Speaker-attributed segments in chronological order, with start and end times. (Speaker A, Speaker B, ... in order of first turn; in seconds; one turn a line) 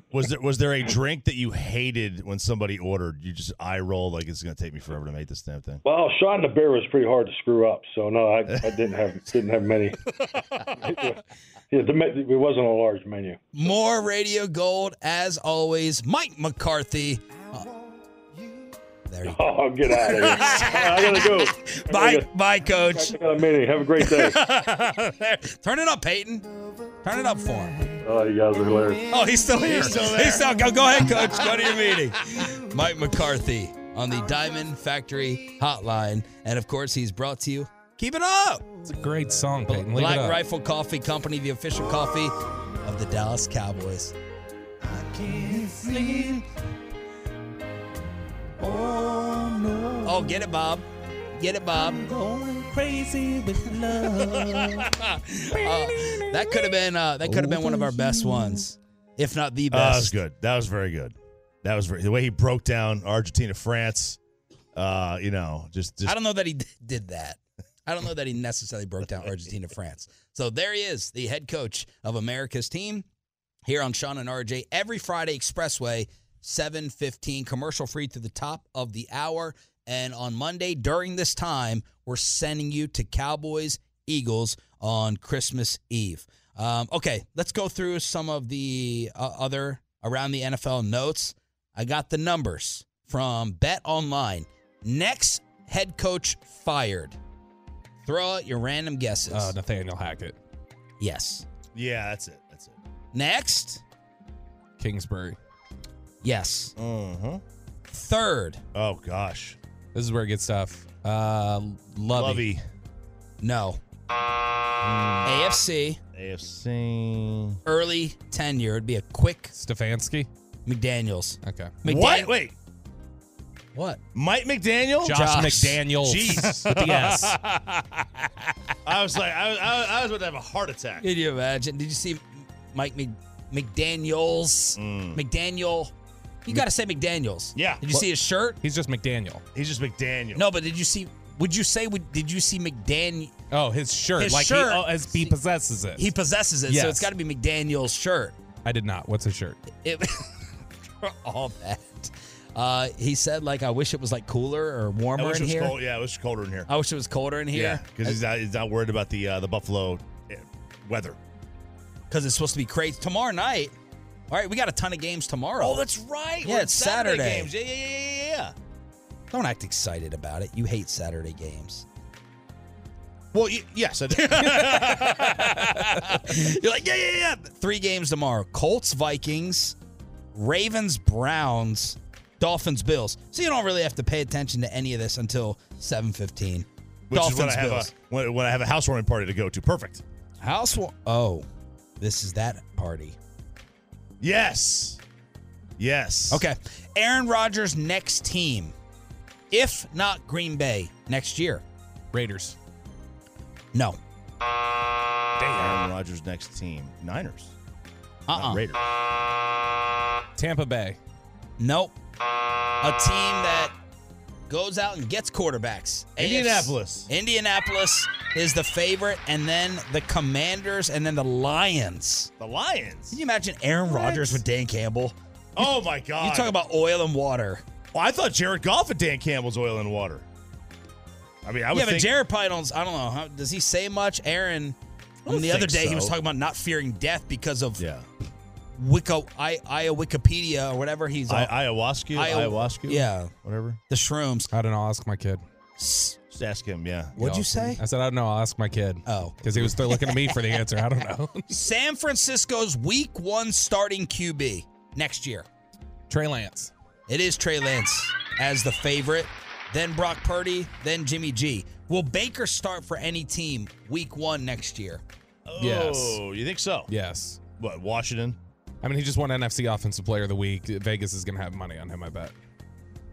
Speaker A: 0.1-5.8
Speaker B: 5.8-13.4
Speaker C: 13.5-17.6
Speaker C: 19.1-19.4
Speaker B: 19.2-22.3
Speaker C: 20.0-23.2
Speaker B: 22.9-24.4
Speaker C: 24.0-26.5
Speaker C: 27.0-28.0
Speaker B: 28.0-29.0
Speaker C: 29.1-38.7
Speaker A: 29.6-30.6
Speaker D: 38.8-40.4
Speaker C: 39.7-44.1
Speaker C: 45.6-46.4
Speaker C: 50.0-52.4
Speaker C: 53.4-60.1
Speaker A: 59.7-64.2
Speaker A: 64.8-66.2
Speaker C: 66.0-73.0
Speaker C: 73.7-97.2
Speaker C: 98.0-99.5
Speaker D: 99.3-100.3
Speaker C: 101.0-101.4
Speaker A: 101.7-102.8
Speaker C: 103.1-103.8
Speaker D: 104.8-105.4
Speaker C: 106.2-106.7
Speaker A: 106.8-107.4
Speaker C: 107.9-108.6
Speaker A: 108.7-109.6
Speaker D: 109.9-112.4
Speaker A: 112.1-112.6
Speaker C: 113.4-113.8
Speaker A: 114.8-115.4
Speaker C: 115.2-116.0
Speaker A: 116.1-117.6
Speaker C: 117.7-119.5
Speaker D: 119.5-120.3
Speaker C: 120.7-122.3
Speaker D: 121.4-121.8
Speaker A: 121.8-122.5
Speaker C: 123.7-124.0
Speaker A: 124.1-125.2
Speaker D: 125.0-127.4
Speaker C: 125.1-125.8
Speaker A: 126.0-128.1
Speaker C: 126.4-126.9
Speaker A: 128.8-131.0
Speaker C: 131.0-135.9
Speaker A: 134.8-135.2
Speaker C: 136.4-138.6
Speaker A: 137.5-138.0
Speaker D: 138.6-139.4
Speaker A: 139.5-140.4
Speaker C: 140.3-143.3
Speaker D: 143.5-146.1
Speaker C: 144.2-145.0
Speaker C: 145.9-148.3
Speaker D: 146.7-147.1
Speaker D: 148.6-149.6
Speaker C: 149.8-150.4
Speaker C: 151.0-155.7
Speaker A: 155.2-156.7
Speaker C: 156.7-158.2
Speaker A: 157.5-161.2
Speaker C: 162.1-163.7
Speaker C: 164.3-165.8
Speaker A: 165.6-168.5
Speaker C: 166.4-167.5
Speaker C: 169.3-171.8
Speaker A: 173.3-175.8
Speaker C: 174.1-179.8
Speaker C: 180.3-187.9
Speaker A: 187.1-190.0
Speaker C: 190.4-191.4
Speaker C: 192.0-193.2
Speaker A: 194.2-195.0
Speaker A: 195.8-196.4
Speaker C: 196.3-198.7
Speaker C: 199.5-201.6
Speaker D: 202.1-202.6
Speaker D: 205.4-205.8
Speaker A: 205.6-207.5
Speaker C: 208.3-208.6
Speaker A: 208.3-208.8
Speaker D: 210.4-211.0
Speaker C: 211.6-211.9
Speaker C: 212.8-213.7
Speaker C: 214.5-222.3
Speaker A: 216.2-217.1
Speaker A: 222.4-223.2
Speaker C: 223.1-227.6
Speaker A: 223.9-224.3
Speaker A: 225.6-226.5
Speaker A: 227.9-230.2
Speaker A: 231.4-232.1
Speaker C: 231.7-237.8
Speaker A: 235.2-236.1
Speaker A: 237.8-238.1
Speaker C: 238.8-241.5
Speaker A: 241.3-243.8
Speaker C: 242.1-243.3
Speaker C: 243.9-244.5
Speaker D: 244.5-245.4
Speaker C: 245.8-246.2
Speaker A: 246.3-247.2
Speaker C: 247.2-247.8
Speaker D: 247.2-251.5
Speaker C: 249.1-250.3
Speaker C: 251.5-255.4
Speaker D: 256.1-256.7
Speaker C: 257.1-265.0
Speaker A: 265.4-266.9
Speaker D: 265.6-266.2
Speaker D: 266.9-267.4
Speaker A: 267.6-268.4
Speaker D: 268.8-272.3